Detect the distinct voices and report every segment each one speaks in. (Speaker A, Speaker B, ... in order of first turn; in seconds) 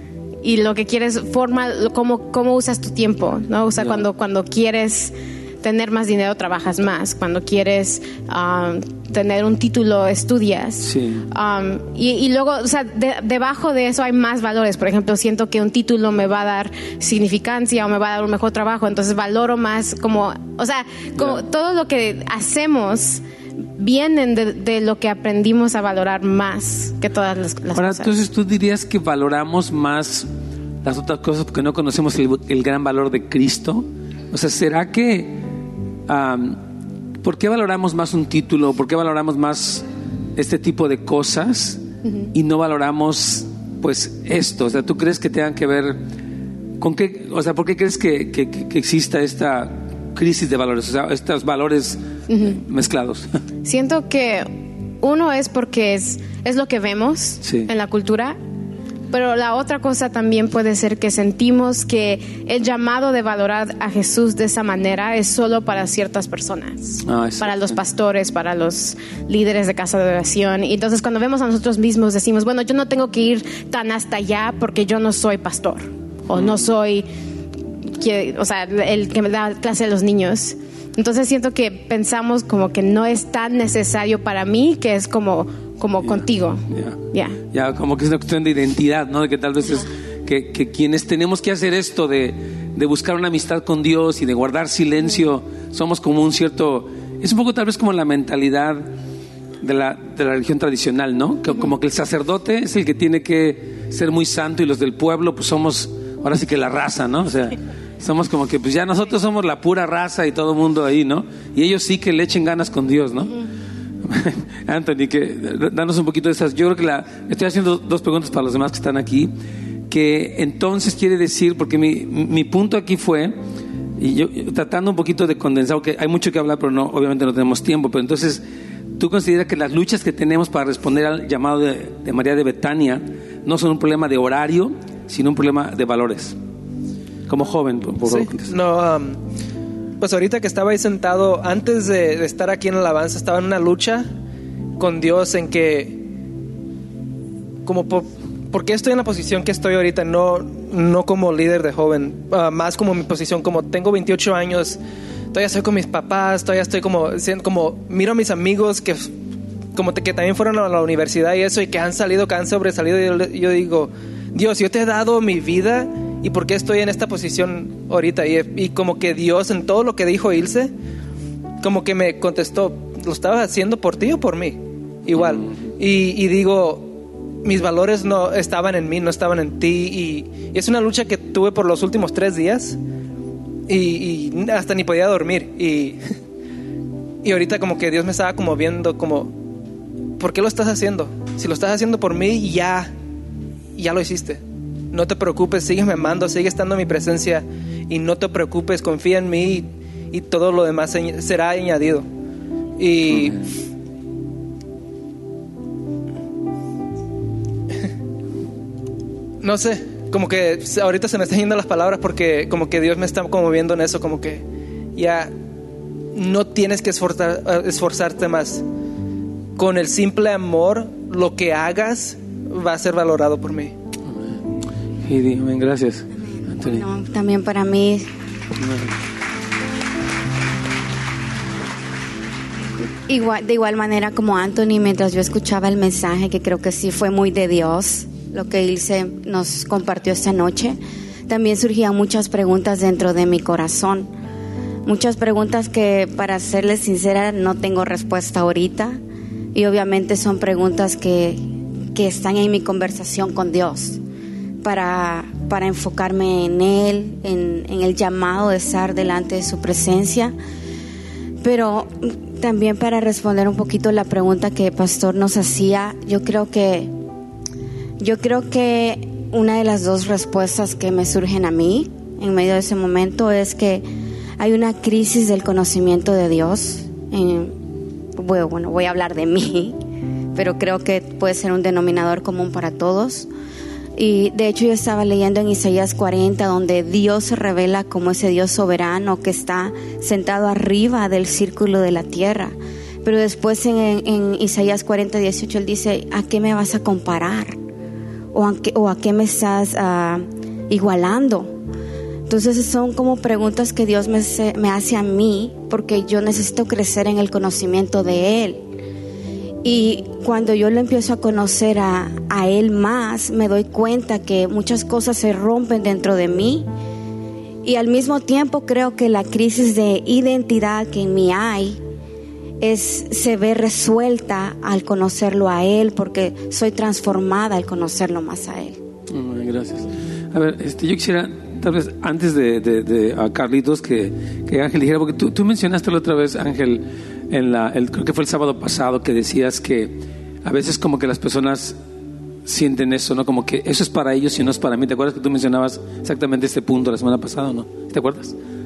Speaker A: 0.4-23.2, 23.8-28.1, 42.0-42.3, 52.3-52.6, 53.6-58.4, 59.1-77.1, 77.9-87.4
Speaker B: 3.8-4.0, 10.8-11.3, 21.2-21.4, 27.7-30.3, 30.8-35.4, 36.1-36.6, 37.2-39.9, 40.4-41.8, 42.3-46.0, 46.8-53.3, 57.4-57.7, 67.0-67.8, 86.0-98.9, 99.6-113.5, 114.0-119.3, 119.9-123.3, 124.0-128.4, 129.0-136.4, 137.3-138.5, 224.1-224.3, 225.0-226.8, 228.6-228.9, 329.1-341.8, 342.5-348.4
Speaker C: 138.0-139.2, 140.0-144.1, 144.8-146.0, 147.7-154.8, 155.3-159.1, 159.8-170.7, 171.6-182.8, 183.7-186.0, 187.2-189.3, 190.2-192.9, 193.8-202.1, 202.8-203.4, 209.4-214.4, 214.9-215.3, 216.1-218.6, 219.6-223.8
Speaker D: 226.3-228.1, 233.1-244.1, 244.8-249.0, 249.5-251.4, 251.9-254.0, 254.6-260.4, 261.4-266.9, 268.0-273.9, 274.4-277.6, 278.1-279.8, 280.4-283.3, 284.0-297.6, 298.3-301.6, 302.3-308.6, 309.6-316.7, 317.6-321.8, 322.6-328.8